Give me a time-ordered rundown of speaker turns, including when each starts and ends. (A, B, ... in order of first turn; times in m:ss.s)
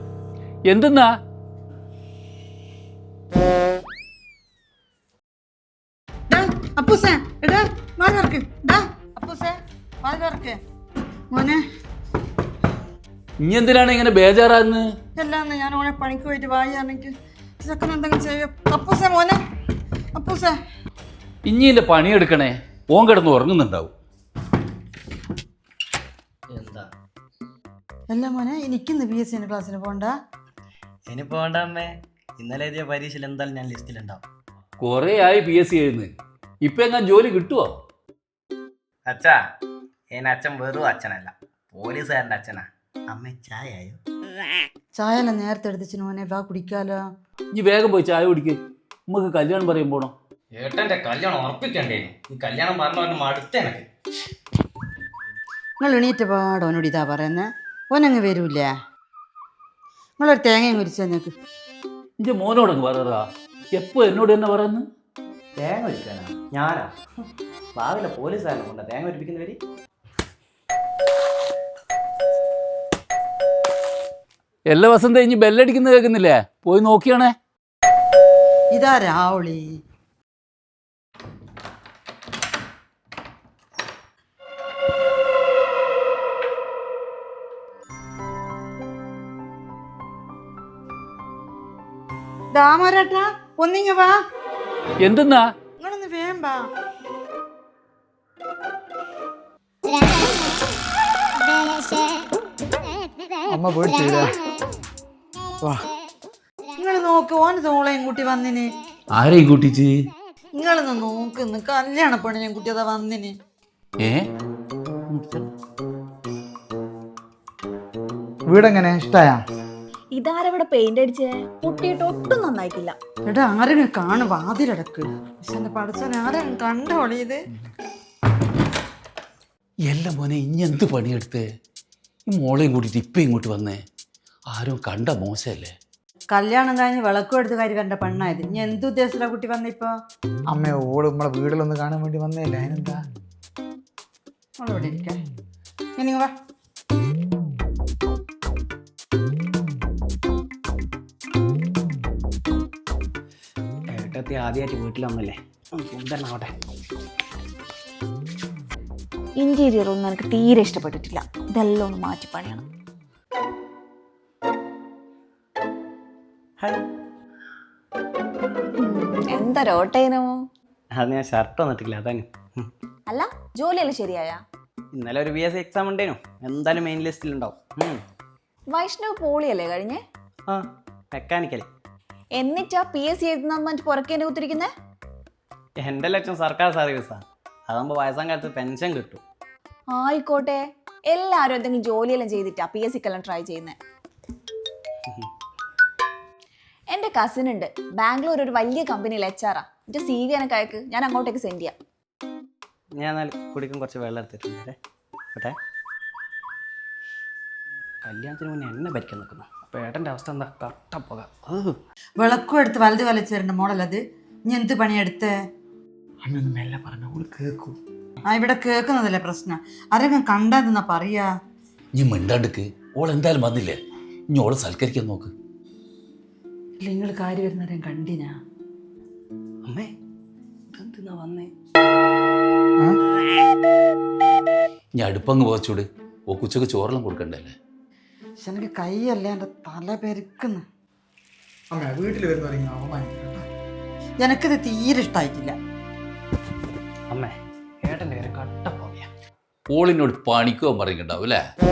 0:00.7-0:01.1 A
0:06.3-0:10.6 B
0:11.3-0:11.6 B
0:13.4-0:14.9 A
0:15.2-0:19.4 B
0:20.1-0:20.6 B
0:21.5-0:23.9 A
0:26.5-0:26.9 C
0:28.1-0:30.1 B
0:31.1-0:34.2 C
0:34.8-0:36.1 A
0:36.6-0:37.7 A
0:39.1-0:39.4 C
0:40.1-0:44.0 C
0:45.0-0:47.0 B
0:47.5-0:48.6 A
0:49.1-0:50.1 A
0:50.6-0:53.9 C
0:55.8-0:58.7 B
1:00.2-1:01.3 B
1:02.2-1:04.8 A
1:05.6-1:06.9 C
1:07.8-1:09.6 C
1:14.7-1:17.3 A
1:18.7-1:19.8 B
1:32.5-1:34.2 B
1:35.0-1:35.4 A
1:35.8-1:36.6 B
1:43.5-1:44.3 D
1:46.8-1:48.7 B
1:49.2-1:49.9 A
1:50.6-1:53.3 B
1:55.1-1:55.5 A
1:58.5-1:59.4 D
2:00.1-2:03.0 E
2:03.3-2:07.4 B
2:09.9-2:11.4 A
2:12.3-2:13.8 A
2:14.5-2:15.7 A
2:16.3-2:19.9 B
2:20.5-2:23.0 D
2:24.6-2:25.2 B
2:26.0-2:26.3 B
2:33.9-2:36.5 C
2:39.4-2:42.6 E
2:48.8-2:50.4 E
2:51.0-2:52.7 C
2:53.1-2:54.4 E
2:54.9-2:58.0 C
2:58.7-3:00.0 E
3:00.5-3:01.7 C
3:02.4-3:04.7 E
3:05.8-3:09.2 C
3:09.9-3:13.8 E
3:16.9-3:21.8 E
3:23.0-3:24.8 C
3:28.0-3:31.8 C
3:32.2-3:35.3 B
3:36.2-3:37.8 D
3:38.3-3:41.3 B
3:42.0-3:43.8 A
3:44.3-3:45.3 A
3:46.8-3:48.4 B
3:49.6-3:49.9 C
3:50.7-3:51.5 C
3:55.0-3:57.5 A
3:58.4-4:00.6 B
4:01.7-4:03.5 D
4:04.2-4:05.6 B
4:07.1-4:09.1 C
4:09.7-4:11.4 A